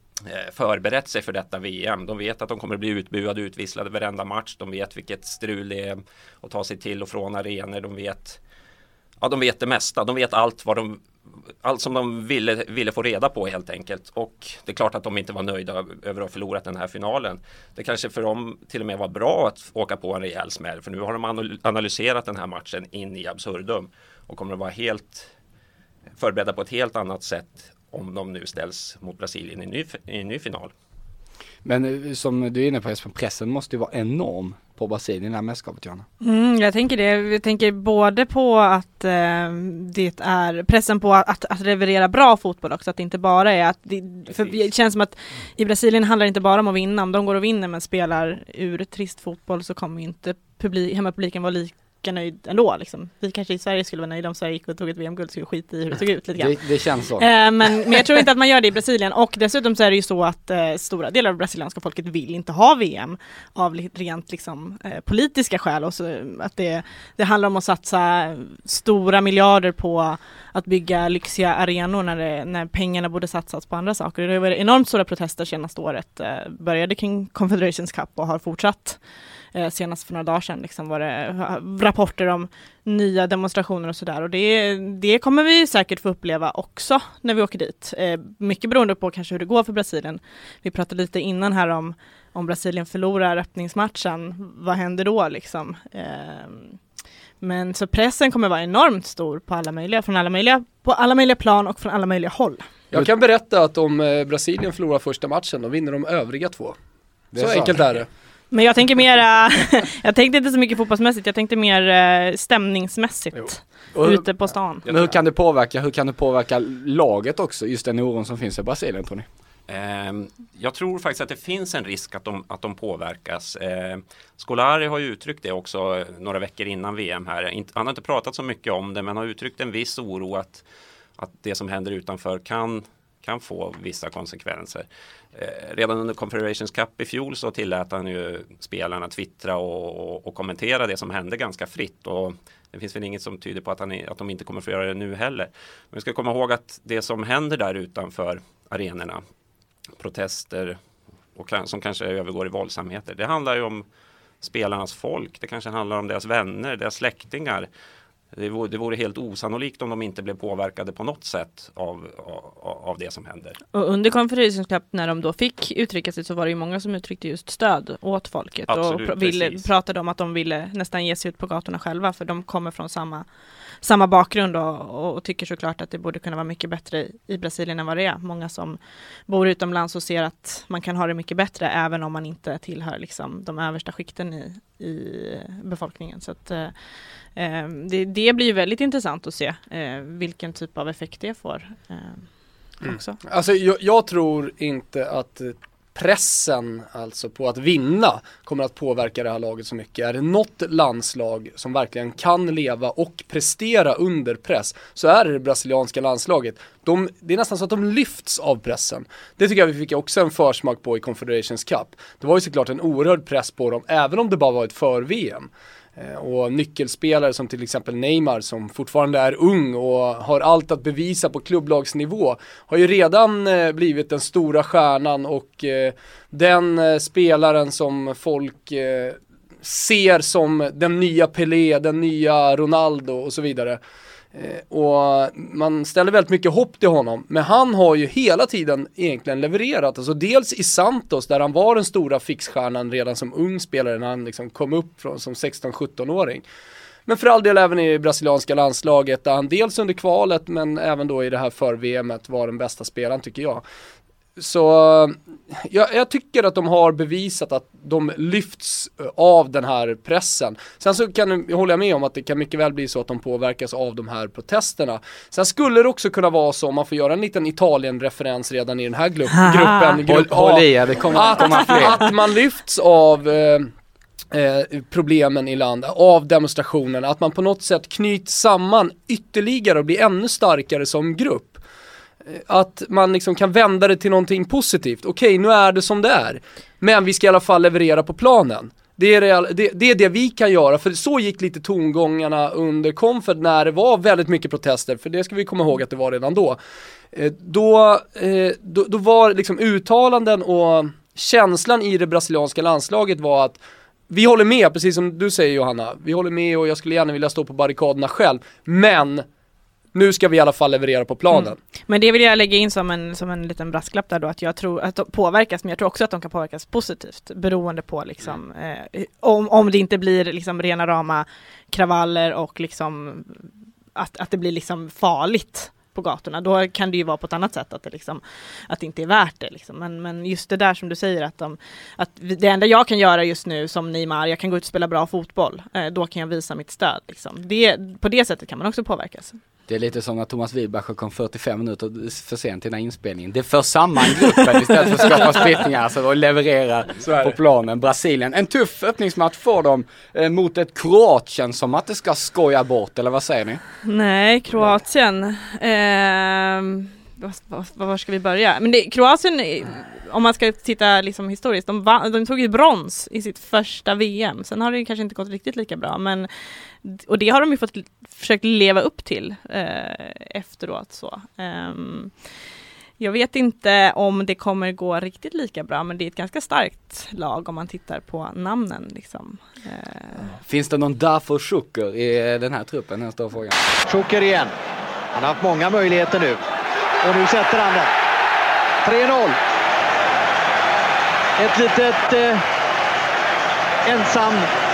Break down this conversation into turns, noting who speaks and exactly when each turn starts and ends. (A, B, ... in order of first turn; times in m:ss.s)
0:00.2-0:08.4 A
0:09.2-0:11.0 A
0:11.6-0:25.3 A
0:26.2-0:30.7 A
0:31.6-0:36.0 B
0:36.2-0:56.6 C
0:56.4-0:57.3 B
0:57.2-1:19.0 C
1:19.5-1:36.8 C
1:37.4-1:42.7 C
1:42.9-1:46.8 D
1:47.3-1:47.9 B
1:47.4-1:48.1 D
1:48.5-1:54.8 C
1:53.9-1:54.3 B
1:54.8-1:59.3 B
1:59.7-2:10.6 A
2:11.2-2:29.2 A
2:30.0-2:30.8 A
2:31.4-2:33.8 A
2:34.4-2:37.7 A
2:38.3-2:43.6 A
2:43.7-2:53.3 C
2:48.7-2:49.7 A
2:53.8-3:06.8 C
3:07.4-3:13.2 C
3:13.2-3:53.8 D
3:54.4-4:06.4 D
4:07.1-4:13.6 D
4:14.4-4:33.7 D
4:29.4-4:30.0 C
4:30.0-4:32.1 B
4:34.3-4:41.6 D
4:42.3-4:56.6 D
4:57.1-5:09.3 D
5:09.9-5:11.6 D
5:11.3-5:39.4 C
5:39.7-5:53.6 B
5:47.0-5:47.3 D
5:53.8-6:06.3 C
6:06.8-6:12.2 C
6:13.0-6:20.3 C
6:20.4-6:23.6 B
6:23.9-6:24.5 E
6:25.1-6:26.4 E
6:27.0-6:27.9 E
6:28.8-6:29.4 E
6:31.4-6:32.4 E
6:33.8-6:34.5 E